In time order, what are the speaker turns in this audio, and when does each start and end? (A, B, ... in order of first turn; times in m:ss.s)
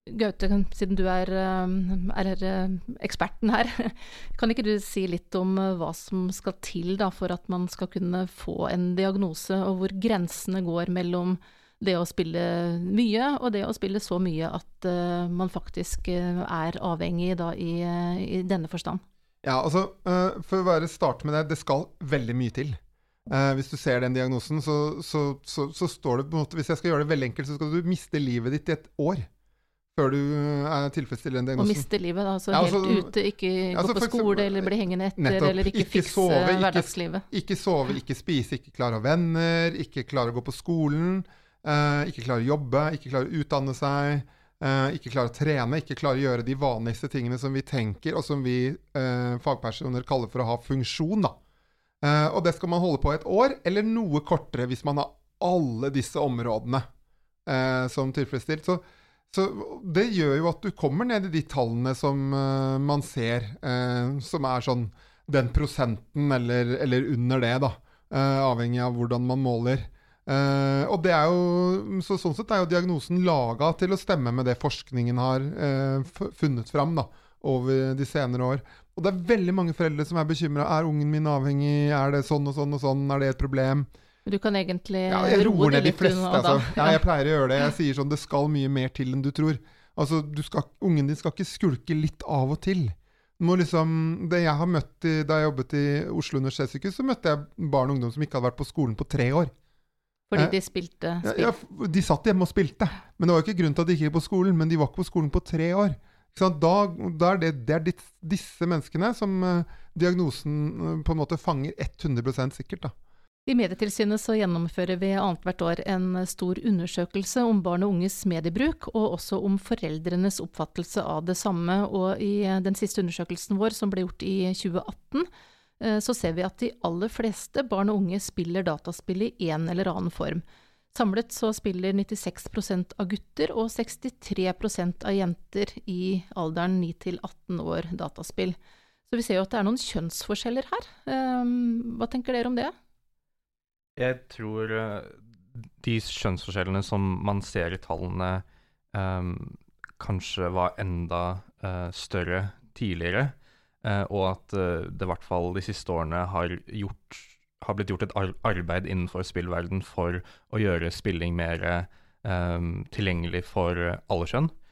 0:00.1-0:19.0 A
0:19.4-0:29.3 B
0:29.9-0:31.8 B
0:31.6-0:37.2 A
0:32.5-0:33.1 B
0:33.7-0:51.4 B
0:52.0-0:56.9 B
0:57.4-1:23.9 B
1:24.2-1:27.0 A
1:25.1-1:39.5 B
1:40.3-1:41.5 A
1:41.2-1:52.9 B
1:53.5-2:05.3 A
2:05.8-2:18.6 A
2:19.1-2:22.7 A
2:24.0-2:25.2 C
2:25.8-2:44.5 C